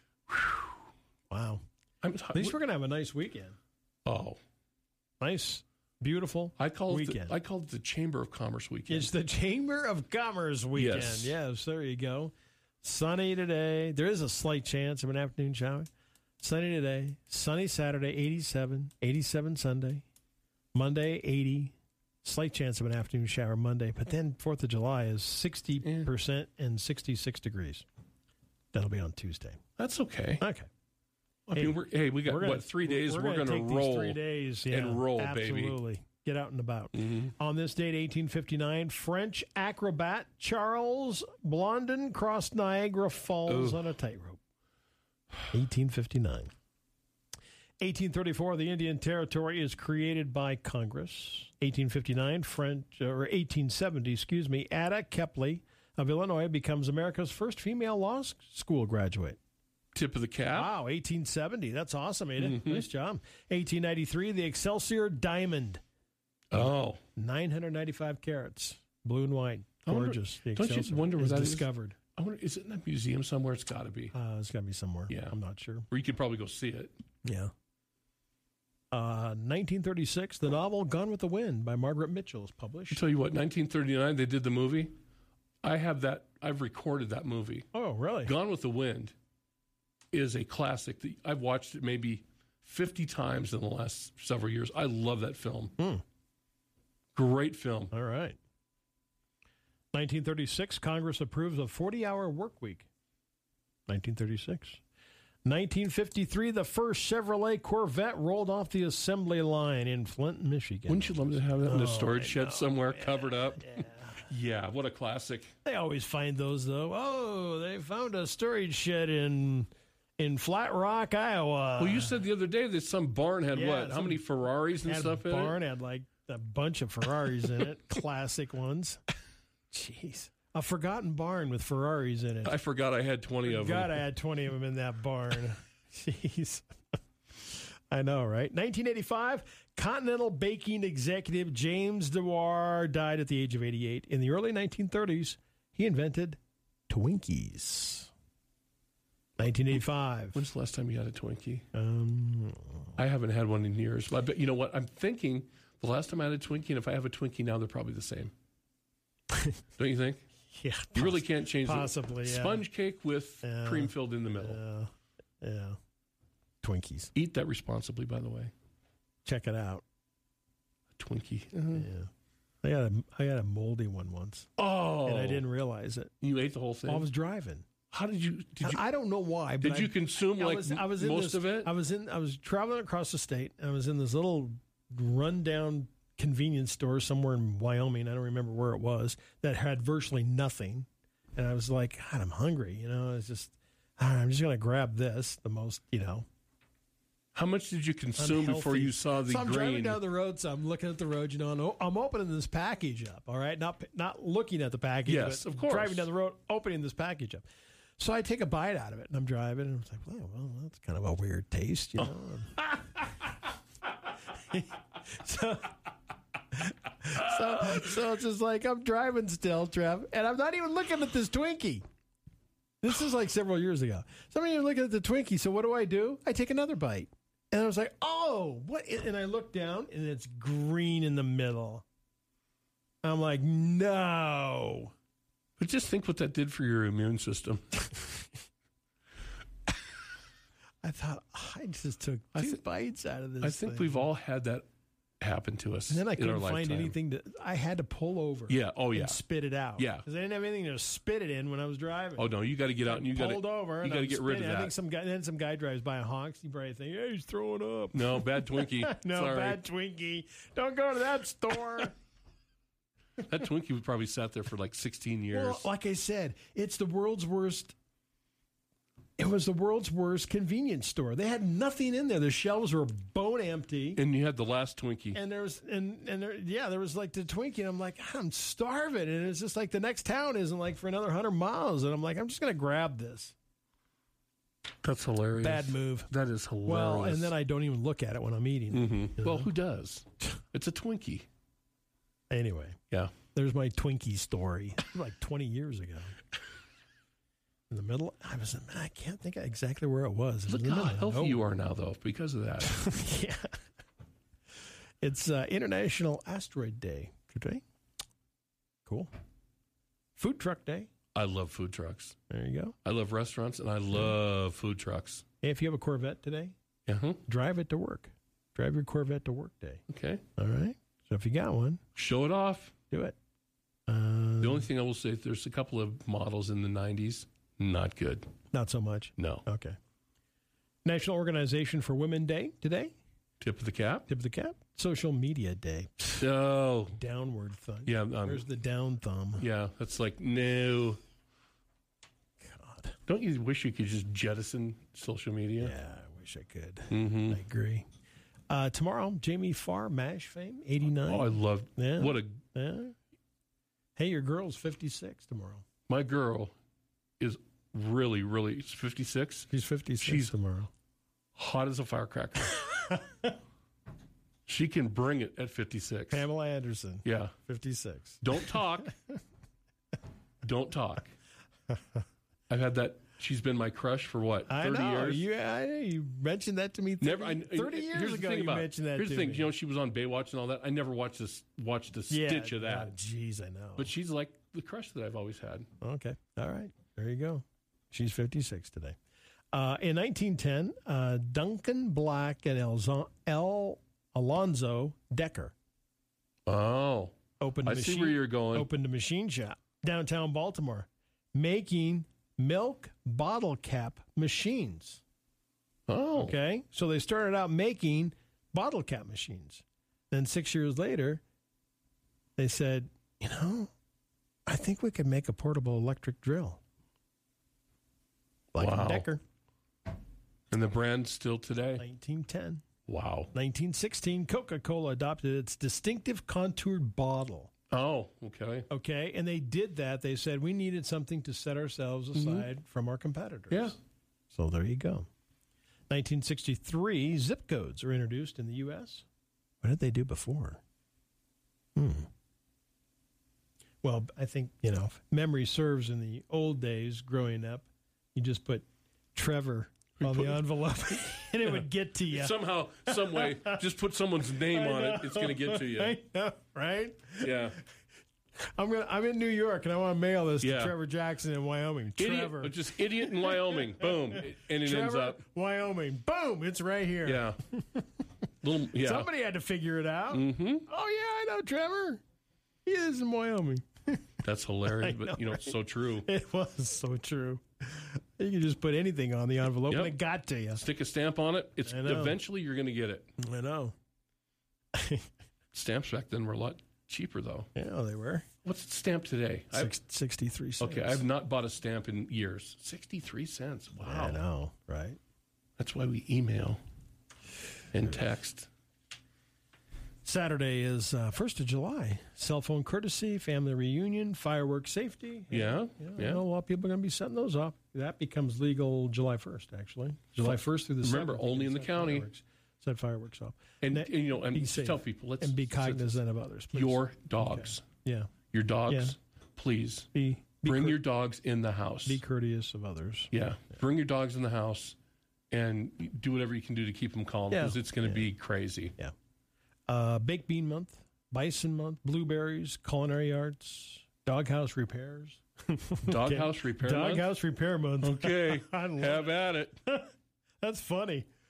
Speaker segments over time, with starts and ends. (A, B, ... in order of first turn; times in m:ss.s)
0:01.3-0:01.6 A
0:02.0-0:02.6 B
0:02.3-0:03.6 A
0:04.0-0:04.4 B
0:05.2-0:07.4 A
0:06.6-0:09.1 B
0:08.9-0:15.9 A
0:10.7-0:11.3 B
0:16.4-0:20.0 A
0:20.7-0:27.8 A
0:25.8-0:26.1 B
0:28.7-0:29.6 A
0:29.8-0:30.4 B
0:30.4-0:30.7 A
0:31.5-0:35.8 B
0:31.5-0:44.4 A
0:37.0-0:37.3 B
0:43.5-0:43.9 B
0:45.5-0:46.5 A
0:47.8-0:59.4 A
0:59.9-1:00.7 B
1:00.5-1:05.8 A
1:02.4-1:02.8 B
1:06.5-1:07.0 B
1:06.5-1:12.0 A
1:09.9-1:14.1 B
1:14.1-1:15.8 A
1:15.1-1:15.3 B
1:15.9-1:16.9 B
1:17.2-1:17.5 A
1:18.9-1:23.0 A
1:22.9-1:24.9 B
1:25.6-1:27.7 B
1:27.7-1:28.3 A
1:28.2-1:29.1 B
1:30.1-1:35.7 B
1:35.8-1:36.0 A
1:37.1-1:37.9 B
1:37.9-1:38.4 A
1:39.9-1:42.9 A
1:43.9-1:44.8 A
1:45.4-1:54.2 A
1:50.9-1:55.5 B
1:55.6-2:02.2 A
2:01.8-2:05.5 B
2:03.5-2:04.2 A
2:04.8-2:09.0 A
2:09.7-2:12.6 A
2:12.4-2:14.0 B
2:13.4-2:16.7 A
2:17.4-2:28.1 A
2:29.4-2:30.4 A
2:30.3-2:31.6 B
2:31.7-2:33.0 A
2:33.0-2:38.3 B
2:39.8-2:40.2 B
2:40.5-2:42.6 A
2:40.9-2:44.6 B
2:43.4-2:45.8 A
2:46.6-2:47.1 A
2:47.1-2:48.5 B
2:49.2-2:49.8 A
2:51.0-2:51.9 B
2:51.7-2:52.1 A
2:52.6-2:54.5 A
2:54.6-2:55.4 B
2:55.0-2:56.1 A
2:56.2-2:57.0 B
2:56.8-2:57.6 A
2:57.9-2:58.8 B
2:58.6-3:16.2 A
2:59.6-3:01.7 B
3:17.3-3:20.0 B
3:18.2-3:27.4 A
3:25.0-3:26.1 B
3:28.0-3:33.3 A
3:34.3-3:35.7 A
3:36.5-3:41.8 A
3:42.8-3:51.8 A
3:53.0-3:54.9 A
3:55.6-3:57.6 B
4:00.8-4:04.1 A
4:03.4-4:04.6 B
4:05.2-4:06.9 B
4:05.9-4:12.3 A
4:08.5-4:09.2 B
4:09.8-4:10.0 B
4:12.2-4:14.7 B
4:12.8-4:21.9 A
4:17.9-4:19.6 B
4:23.2-4:25.6 B
4:25.3-4:27.7 A
4:29.2-4:34.0 A
4:34.0-4:35.2 B
4:35.1-4:43.3 A
4:44.8-4:47.3 B
4:45.4-4:46.1 A
4:46.6-4:49.5 A
4:48.7-4:51.2 B
4:52.3-4:52.8 A
4:53.3-4:56.2 A
4:57.7-5:01.4 A
5:00.5-5:02.7 B
5:02.6-5:03.5 A
5:05.0-5:07.6 A
5:08.8-5:09.1 A
5:10.2-5:10.9 A
5:11.1-5:12.1 B
5:12.3-5:12.8 A
5:12.8-5:15.2 B
5:15.4-5:16.5 A
5:16.9-5:17.2 B
5:17.2-5:19.8 A
5:19.9-5:20.2 B
5:20.4-5:21.8 A
5:21.9-5:22.7 B
5:22.9-5:23.2 A
5:23.9-5:24.7 A
5:24.4-5:28.3 B
5:28.5-5:29.8 A
5:29.2-5:29.4 B
5:30.8-5:32.9 A
5:33.4-5:34.0 B
5:34.1-5:36.2 A
5:36.2-5:37.0 B
5:36.9-5:39.4 A
5:37.8-5:38.4 B
5:39.4-5:41.0 B
5:42.4-5:42.9 A
5:43.1-5:45.7 B
5:45.6-5:47.8 A
5:46.9-5:47.4 B
5:48.5-5:52.9 A
5:51.0-5:52.4 B
5:54.0-5:55.6 A
5:55.9-5:56.5 B
5:57.2-5:59.5 B
5:59.5-6:00.7 A
6:00.0-6:00.3 B
6:01.4-6:02.6 B
6:02.9-6:03.3 A
6:04.5-6:06.2 B
6:06.1-6:09.2 A
6:07.0-6:07.3 B
6:08.2-6:08.9 B
6:10.4-6:11.1 B
6:12.5-6:15.2 B
6:14.5-6:19.5 A
6:17.0-6:22.9 B
6:22.1-6:23.9 A
6:23.8-6:25.7 B
6:25.8-6:29.0 A
6:29.5-6:35.5 A
6:36.5-6:38.7 B
6:37.4-6:45.0 A
6:45.9-6:46.3 B
6:46.2-6:51.2 A
6:52.4-6:53.7 A
6:54.5-6:56.6 A
6:58.5-6:59.2 A
6:58.6-6:59.0 B
7:00.5-7:01.8 B
7:01.8-7:02.6 A
7:02.9-7:03.3 B
7:03.3-7:07.5 A
7:07.7-7:08.7 B
7:08.7-7:13.8 A
7:12.1-7:12.4 B
7:14.3-7:15.1 A
7:15.9-7:19.0 A
7:19.6-7:20.6 A
7:21.8-7:22.1 A
7:23.8-7:33.6 A
7:30.0-7:30.9 B
7:31.4-7:36.0 B
7:34.2-7:37.6 A
7:37.2-7:37.6 B
7:38.5-7:47.9 A
7:40.4-7:40.7 B
7:42.0-7:45.2 B
7:47.0-7:47.4 B
7:48.4-7:49.1 B
7:48.7-7:52.0 A
7:50.1-7:50.6 B
7:52.6-7:54.1 A
7:54.2-7:56.1 B
7:54.7-8:00.6 A
7:59.7-7:59.9 B
8:00.6-8:03.1 B
8:01.6-8:02.2 A
8:03.2-8:03.7 A
8:04.7-8:05.1 A
8:05.5-8:07.5 B
8:07.6-8:08.2 A
8:08.4-8:09.7 B
8:09.5-8:11.0 A
8:10.6-8:14.2 B
8:13.8-8:15.0 A
8:15.6-8:16.6 B
8:17.7-8:18.5 B
8:20.0-8:38.1 A
8:25.3-8:26.2 B
8:30.2-8:32.1 B
8:33.6-8:36.0 B
8:36.5-8:37.6 B
8:38.3-8:39.9 B
8:38.7-8:38.9 A
8:39.9-8:40.8 A
8:40.4-8:42.0 B
8:41.8-8:43.1 A
8:43.1-8:44.7 B
8:45.3-8:48.7 B
8:47.3-8:48.1 A
8:49.7-8:59.9 A
8:55.8-8:57.1 B
8:57.8-8:59.6 B
9:00.4-9:01.1 A